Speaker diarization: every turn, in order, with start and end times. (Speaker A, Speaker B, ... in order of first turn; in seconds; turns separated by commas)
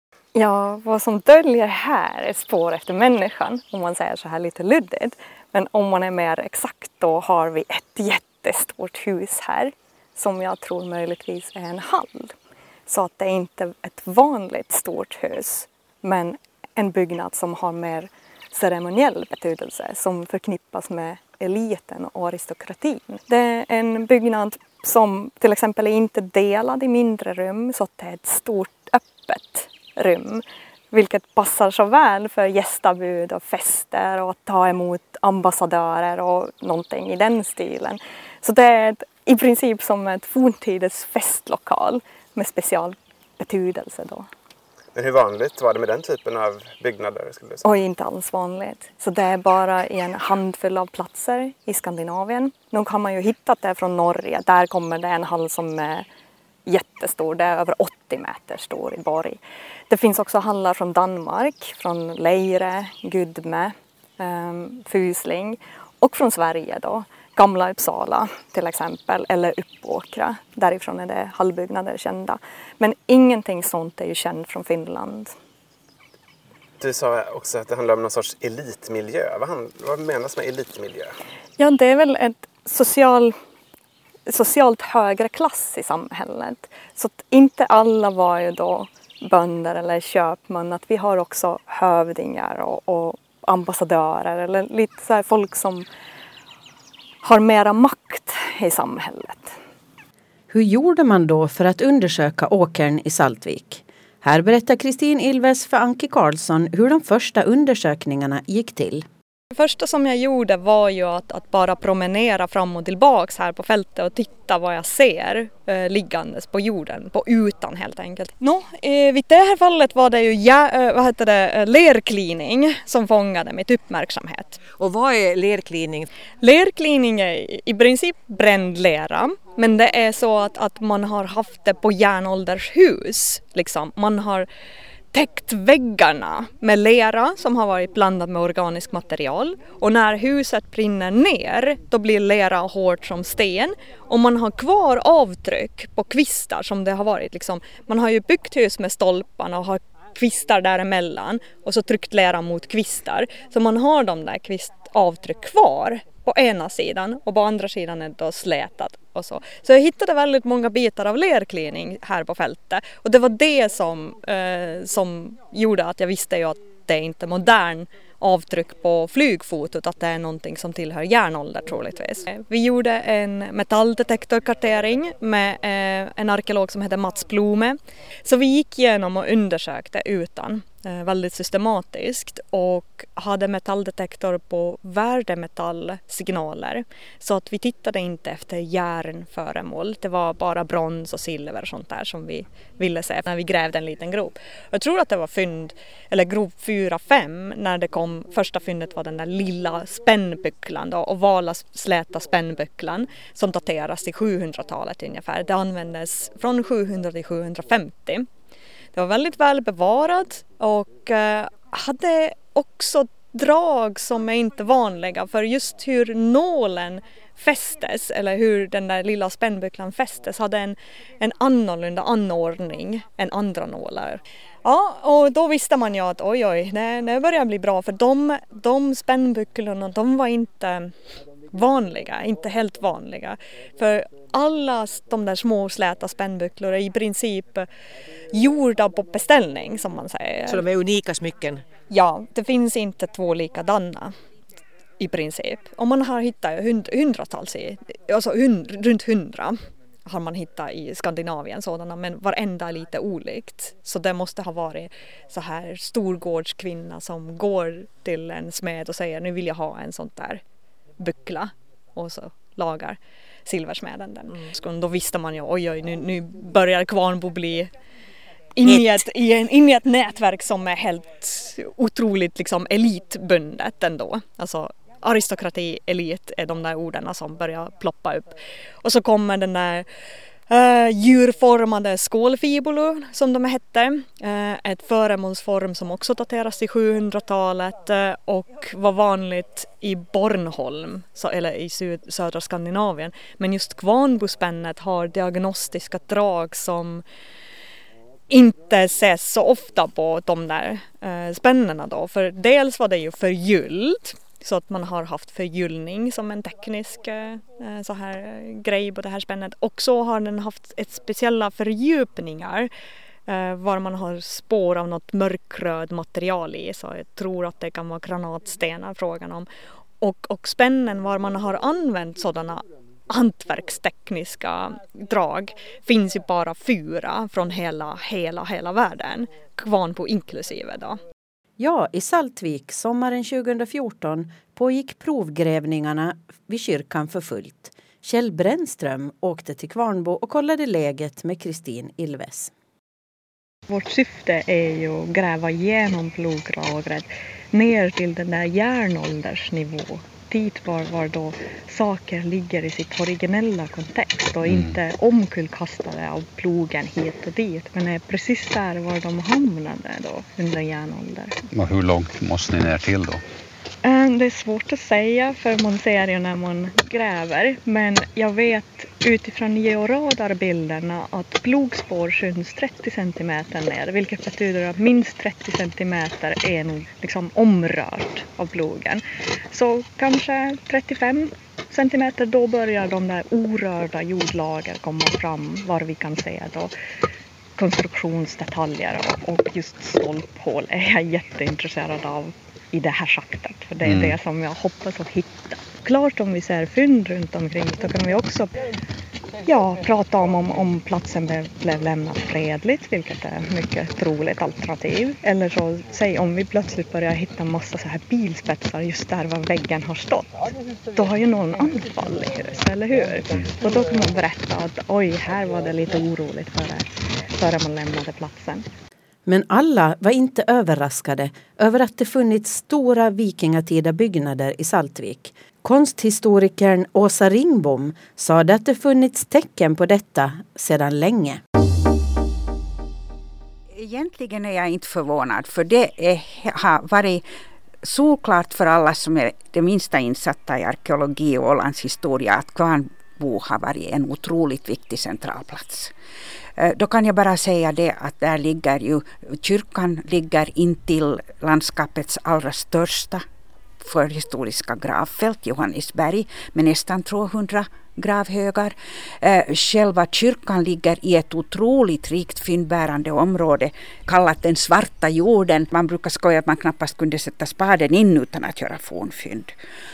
Speaker A: 0.3-12.3, Speaker A: 12.9-44.3, Speaker B: 44.9-47.6, Speaker A: 47.6-56.0, Speaker A: 56.6-59.4, Speaker A: 59.9-75.3, Speaker B: 76.8-81.1, Speaker A: 81.6-83.3, Speaker A: 84.3-95.9, Speaker A: 97.2-99.6, Speaker C: 100.5-109.1, Speaker A: 109.5-124.6, Speaker D: 124.8-126.1, Speaker A: 126.4-134.5, Speaker A: 135.1-208.3, Speaker A: 208.9-230.9, Speaker A: 231.5-237.7, Speaker A: 238.3-240.6, Speaker D: 240.5-241.6, Speaker A: 241.9-244.1, Speaker A: 245.0-260.4, Speaker A: 261.0-267.7, Speaker A: 268.5-279.9, Speaker D: 268.6-269.0, Speaker A: 280.5-297.0, Speaker A: 298.3-312.7, Speaker A: 313.3-319.5, Speaker A: 320.0-331.0, Speaker C: 331.6-342.5, Speaker A: 343.7-361.3, Speaker E: 354.4-354.7, Speaker E: 361.5-363.2, Speaker A: 363.8-386.7, Speaker A: 387.6-398.6, Speaker E: 393.8-394.1, Speaker A: 399.4-418.6, Speaker C: 419.2-431.4, Speaker F: 433.7-437.2, Speaker F: 437.8-445.9, Speaker F: 446.6-453.2, Speaker F: 453.8-469.5